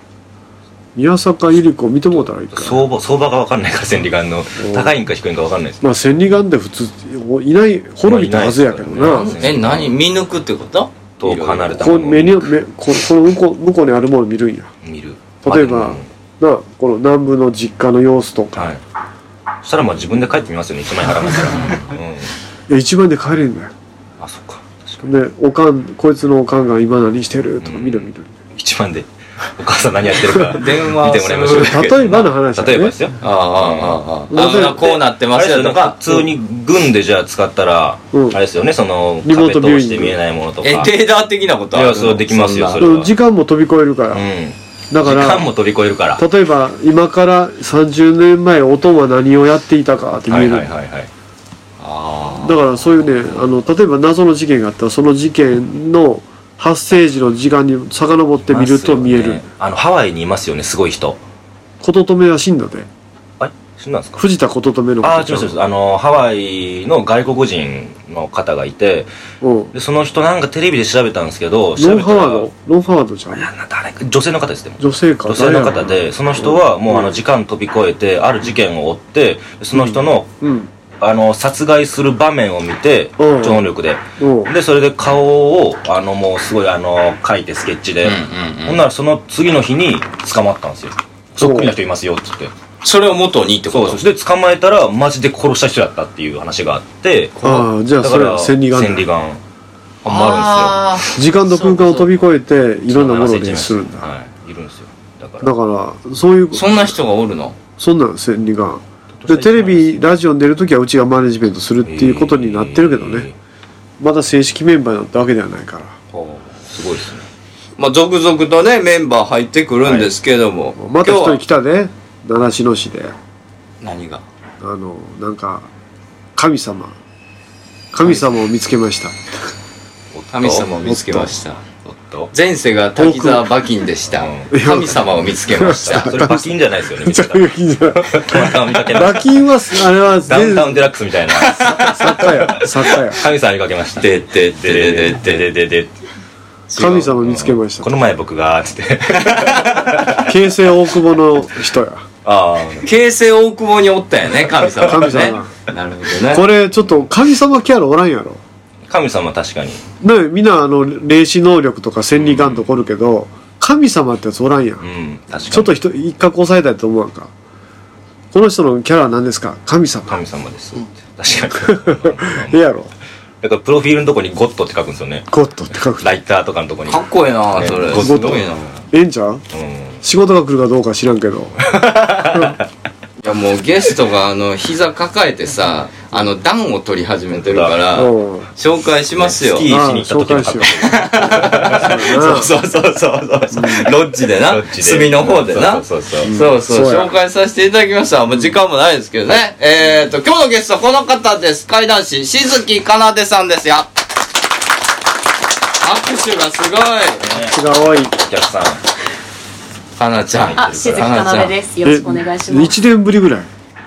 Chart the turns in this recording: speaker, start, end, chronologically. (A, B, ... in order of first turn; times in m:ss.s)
0:01.0-0:02.9 A
0:02.2-0:06.1 B
0:04.6-0:05.0 A
0:05.8-0:09.4 A
0:08.0-0:09.9 B
0:09.1-0:12.0 C
0:11.2-0:12.5 B
0:11.8-0:14.7 A
0:14.8-0:16.0 B
0:15.4-0:18.8 A
0:18.5-0:18.8 B
0:19.6-0:22.3 B
0:22.7-0:23.7 A
0:24.2-0:25.0 B
0:25.0-0:28.4 A
0:27.6-0:40.9 B
0:30.5-0:32.1 C
0:31.5-0:33.0 A
0:33.2-0:36.2 C
0:34.3-0:35.0 A
0:38.1-0:38.4 A
0:39.2-0:40.2 A
0:40.6-0:42.9 C
0:41.7-0:43.1 B
0:42.8-0:44.3 A
0:44.1-0:46.2 B
0:44.9-0:45.5 A
0:46.2-0:50.7 A
0:50.3-0:51.1 B
0:51.8-0:53.5 C
0:52.4-0:59.4 A
0:58.4-1:01.2 B
1:01.8-1:02.9 A
1:03.4-1:04.2 B
1:04.2-1:05.5 A
1:05.0-1:09.1 B
1:09.4-1:09.7 A
1:09.7-1:12.5 B
1:11.8-1:13.5 A
1:13.3-1:20.3 B
1:14.8-1:17.2 A
1:19.7-1:20.7 A
1:21.0-1:32.5 B
1:23.2-1:24.5 A
1:28.0-1:28.8 C
1:31.4-1:31.7 A
1:32.8-1:34.0 C
1:33.7-1:39.4 B
1:37.4-1:39.1 A
1:40.0-1:40.8 B
1:40.1-1:42.1 C
1:41.1-1:44.1 A
1:42.9-1:45.5 B
1:45.4-1:46.9 A
1:46.5-1:47.6 C
1:47.8-1:53.3 A
1:49.2-1:50.0 B
1:51.8-1:53.4 B
1:54.0-1:56.0 A
1:56.1-1:56.6 C
1:56.7-1:57.3 B
1:57.8-2:01.4 C
1:59.8-2:00.1 B
2:00.8-2:03.1 A
2:03.8-2:04.2 C
2:04.6-2:05.7 A
2:06.4-2:07.0 A
2:07.9-2:09.2 A
2:10.1-2:10.7 B
2:10.3-2:16.2 C
2:10.8-2:11.3 A
2:11.9-2:12.3 B
2:13.0-2:13.5 A
2:14.2-2:14.5 B
2:14.5-2:20.9 A
2:15.2-2:19.3 B
2:20.2-2:25.9 B
2:21.4-2:22.0 C
2:21.8-2:23.2 A
2:24.0-2:25.4 C
2:26.7-2:27.2 C
2:26.8-2:27.9 A
2:27.2-2:30.3 B
2:29.2-2:29.9 C
2:30.2-2:32.1 A
2:32.2-2:32.9 B
2:32.8-2:36.5 C
2:34.8-2:35.5 A
2:36.3-2:38.4 A
2:38.9-2:39.8 B
2:40.0-2:44.8 A
2:42.2-2:42.7 B
2:44.8-2:45.7 B
2:45.5-2:47.3 A
2:48.3-2:50.2 A
2:50.1-2:52.6 B
2:51.5-2:52.9 A
2:53.4-2:55.3 B
2:55.3-2:56.2 A
2:56.0-2:58.5 B
2:56.9-2:58.7 C
2:57.9-2:59.4 A
2:59.5-3:00.0 B
3:00.0-3:02.6 A
3:01.6-3:02.6 B
3:03.2-3:09.7 C
3:07.3-3:07.8 B
3:07.9-3:08.5 A
3:09.2-3:12.5 B
3:09.7-3:10.8 A
3:10.8-3:23.9 C
3:11.6-3:12.5 A
3:13.5-3:13.9 A
3:14.5-3:16.3 B
3:16.2-3:17.1 A
3:25.8-3:27.2 C
3:27.2-3:28.8 B
3:27.4-3:28.2 A
3:30.0-3:31.5 C
3:30.3-3:31.5 B
3:30.6-3:32.8 D
3:31.8-3:33.5 A